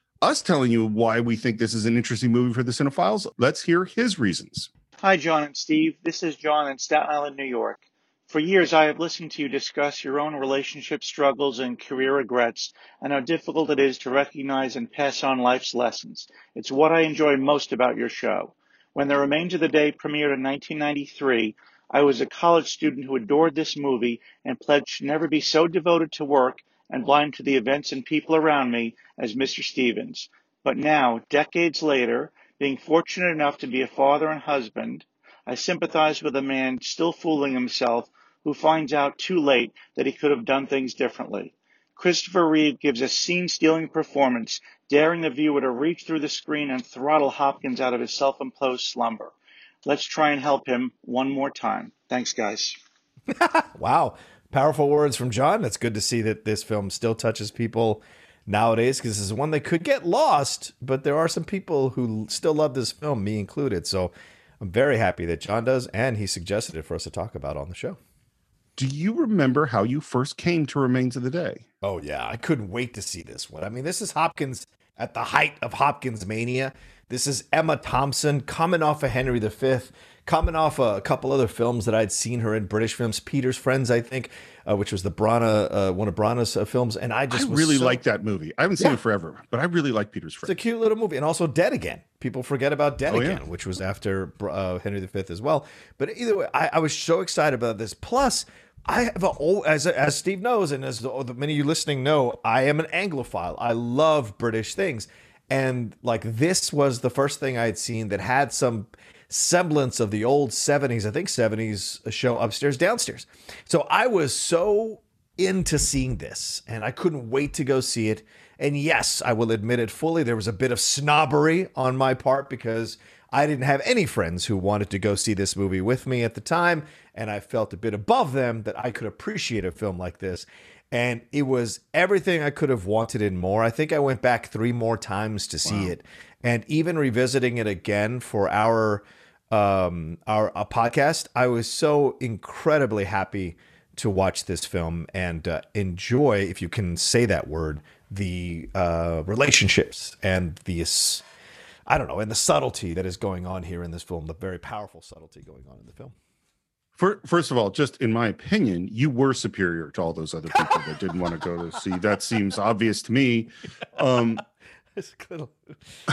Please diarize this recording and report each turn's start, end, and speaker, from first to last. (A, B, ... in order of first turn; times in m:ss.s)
0:00.2-0:04.7 A
0:05.0-0:49.3 B
0:49.8-0:52.8 B
0:53.3-1:08.0 C
1:08.8-1:11.6 A
1:11.8-1:28.0 C
1:27.3-1:30.6 A
1:30.4-2:31.2 C
1:33.1-1:33.4 A
2:15.7-2:15.9 A
2:31.9-2:36.2 C
2:37.0-2:44.4 A
2:45.0-2:45.8 C